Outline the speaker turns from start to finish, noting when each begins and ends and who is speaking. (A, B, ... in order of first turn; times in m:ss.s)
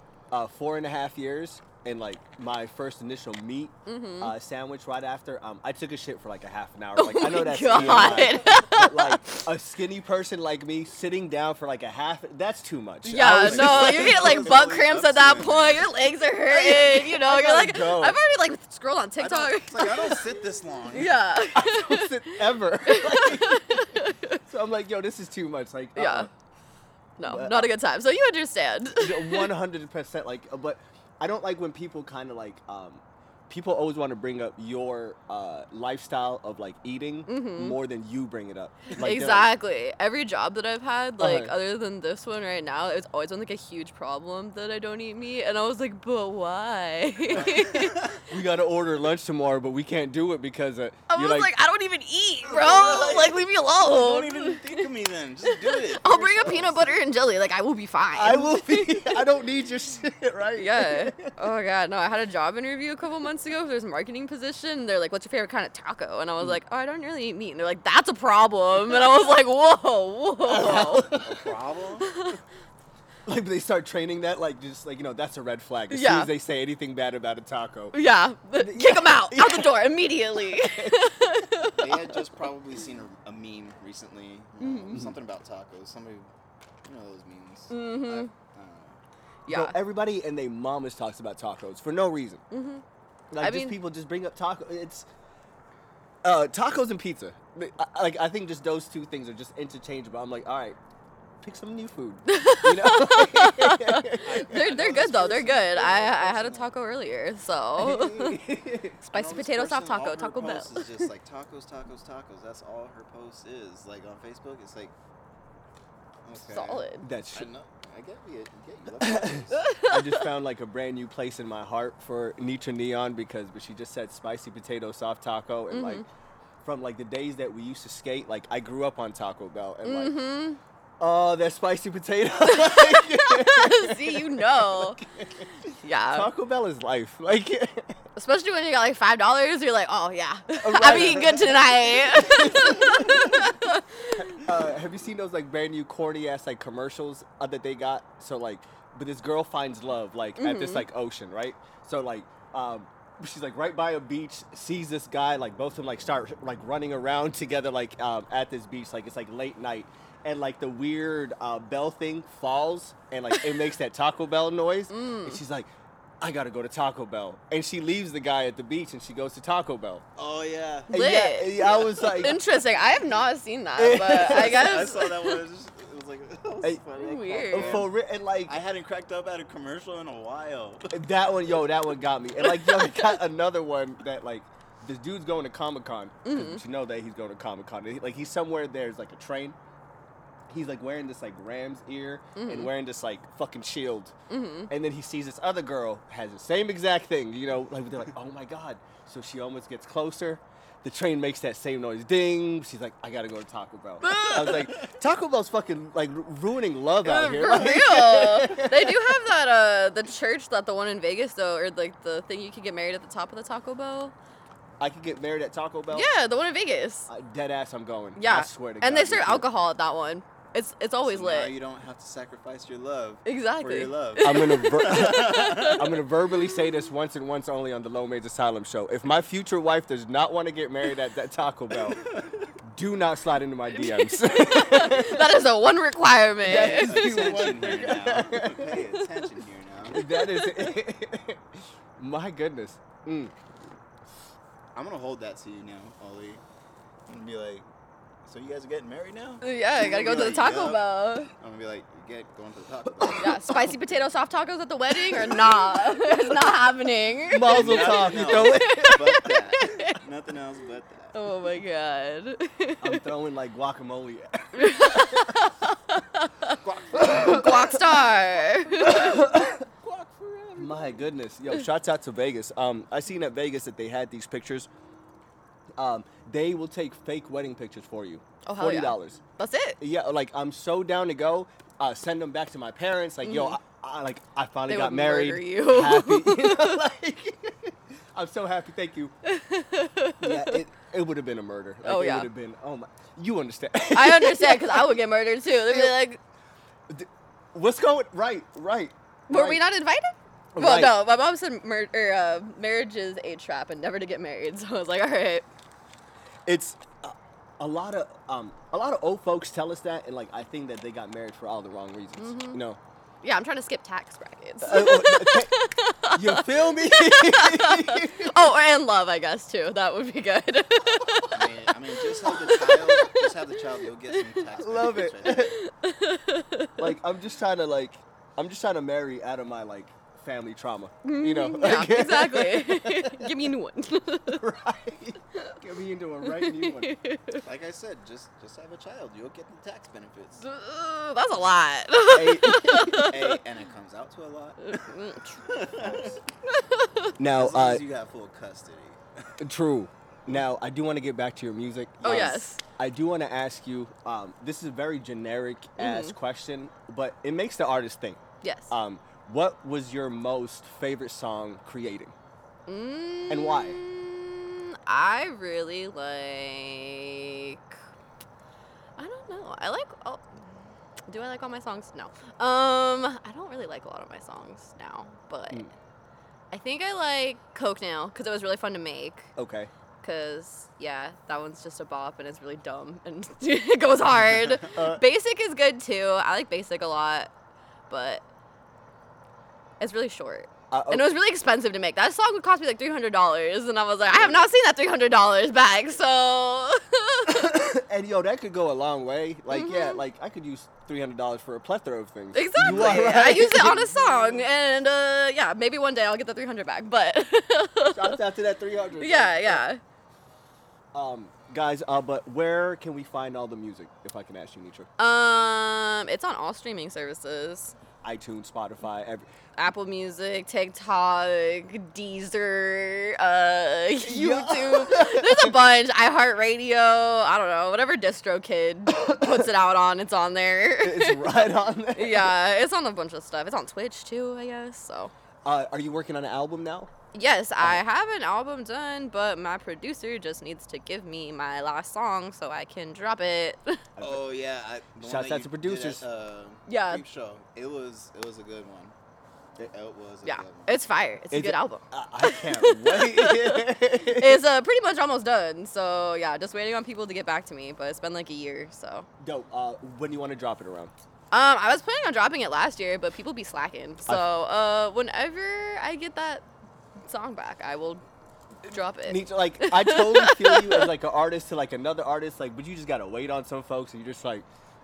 0:00.3-0:14.6 A
0:03.8-0:04.3 B
0:07.0-0:09.4 B
0:07.7-0:08.4 C
0:13.0-0:20.3 B
0:13.3-0:15.9 C
0:16.5-0:18.2 A
0:19.2-0:21.2 C
0:20.9-0:24.4 B
0:21.5-0:26.3 A
0:26.0-0:26.3 B
0:27.2-0:29.5 B
0:27.2-0:27.7 A
0:29.0-0:39.5 A
0:37.3-0:37.8 B
0:38.9-0:48.1 B
0:41.2-0:41.6 A
0:47.3-0:48.2 C
0:48.3-0:51.5 A
0:51.1-0:54.8 B
0:52.5-0:57.0 C
0:55.6-0:59.2 B
0:58.2-1:01.3 A
1:00.6-1:11.2 B
1:10.4-1:11.5 A
1:10.6-1:12.1 C
1:12.0-1:12.4 B
1:13.2-1:18.0 A
1:15.9-1:16.3 B
1:17.9-1:22.0 B
1:18.6-1:21.0 A
1:21.8-1:26.3 C
1:24.6-1:25.0 B
1:26.8-1:29.0 C
1:27.7-1:28.3 B
1:29.4-1:29.8 B
1:29.5-1:32.4 A
1:32.5-1:32.8 B
1:33.3-1:35.0 A
1:33.4-1:33.8 B
1:36.2-1:40.8 A
1:41.4-1:44.7 A
1:42.2-1:48.4 B
1:44.2-1:46.7 C
1:47.8-1:49.0 A
1:49.0-1:50.9 B
1:49.1-1:54.9 C
1:56.2-1:59.7 C
1:56.5-1:57.0 B
1:57.0-1:57.5 A
1:59.0-2:06.0 A
1:59.5-2:00.2 B
2:05.7-2:06.0 B
2:06.6-2:10.2 A
2:09.8-2:10.6 B
2:11.0-2:17.9 A
2:12.4-2:15.0 B
2:15.8-2:16.3 B
2:18.2-2:24.4 B
2:20.6-2:23.5 A
2:24.2-2:50.0 A
2:30.4-2:30.9 B
2:43.3-2:43.6 B
2:44.9-2:45.4 B
2:50.2-2:50.9 C
2:50.9-2:55.4 B
2:50.9-2:52.4 A
2:51.5-2:53.2 C
2:53.8-2:54.8 A
2:54.1-3:01.0 C
2:56.9-2:57.8 B
2:57.5-2:58.6 A
3:00.9-3:09.6 A
3:02.4-3:03.2 B
3:06.2-3:06.6 B
3:10.5-3:14.1 A
3:12.4-3:12.7 B
3:14.3-3:14.7 B
3:14.7-3:29.2 A
3:24.0-3:24.8 B
3:24.2-3:24.6 C
3:27.0-3:34.1 B
3:34.8-3:36.1 A
3:35.9-3:37.1 B
3:37.1-3:39.5 A
3:38.2-3:41.5 B
3:41.0-3:45.9 C
3:43.2-3:45.8 B
3:44.2-3:52.0 A
3:51.9-3:52.5 C
3:52.6-3:55.4 A
3:53.7-3:57.0 B
3:56.4-3:58.8 A
3:56.4-4:00.0 C
3:59.9-4:03.3 A
4:00.0-4:00.7 B
4:04.7-4:06.4 C
4:07.1-4:07.6 C
4:08.2-4:13.8 C
4:09.4-4:11.3 B
4:13.0-4:13.4 A
4:13.2-4:17.6 B
4:15.1-4:15.6 A
4:17.3-4:19.2 A
4:17.4-4:21.2 C
4:18.3-4:20.0 B
4:21.1-4:23.0 B
4:22.8-4:25.4 A
4:24.5-4:29.2 B
4:26.6-4:27.5 C
4:26.9-4:28.0 A
4:28.4-4:31.0 C
4:28.8-4:29.7 A
4:30.6-4:34.7 A
4:35.8-4:39.2 A
4:38.4-4:39.8 B
4:39.8-4:49.1 A
4:43.2-4:43.6 B
4:44.7-4:46.8 B
4:49.2-4:50.6 B
4:50.2-4:55.0 A
4:51.8-4:52.3 B
4:53.9-4:56.2 B
4:55.6-4:55.9 A
4:56.9-4:59.6 A
4:59.3-5:05.4 B
5:00.5-5:01.0 A
5:06.4-5:12.8 A
5:12.2-5:12.6 B
5:13.2-5:23.3 B
5:14.6-5:15.6 A
5:16.1-5:18.5 A
5:21.3-5:25.6 C
5:24.5-5:25.6 A
5:25.2-5:26.8 B
5:26.8-5:33.3 A
5:31.0-5:34.4 B
5:34.3-5:37.0 A
5:36.2-5:37.4 B
5:37.4-5:40.4 C
5:40.4-5:43.4 B
5:42.1-5:43.1 A
5:43.1-5:46.2 C
5:44.6-5:45.4 B
5:46.5-5:47.1 B
5:47.2-5:47.8 A
5:47.3-5:49.0 C
5:49.4-6:02.1 A
5:52.0-5:52.6 B
5:55.8-5:56.2 B
5:58.4-5:58.7 B
6:02.7-6:07.8 B
6:03.3-6:03.8 A
6:09.0-6:10.5 B
6:11.1-6:15.7 B
6:16.5-6:19.3 B
6:19.4-6:19.7 A
6:20.0-6:27.3 B
6:24.7-6:25.0 A
6:27.9-6:28.2 B
6:29.8-6:37.5 B
6:30.7-6:31.1 A
6:37.2-6:44.4 A
6:39.5-6:40.0 B
6:42.3-6:48.2 B
6:42.6-6:43.3 C
6:47.9-6:49.6 A
6:49.0-6:49.8 B
6:50.9-6:54.9 A
6:55.0-6:57.7 B
6:58.0-6:59.3 A
6:59.6-7:15.1 B
7:04.0-7:05.6 A
7:08.9-7:09.5 A
7:10.8-7:12.4 A
7:15.4-7:16.9 A
7:17.1-7:23.8 B
7:24.0-7:24.2 A
7:24.0-7:28.9 C
7:25.0-7:26.0 A
7:26.7-7:27.0 B
7:29.7-7:30.8 C
7:30.2-7:39.1 B
7:31.3-7:34.4 A
7:39.2-7:40.9 A
7:41.3-7:46.4 B
7:47.0-7:48.0 B
7:48.7-7:50.9 B
7:49.0-7:54.4 A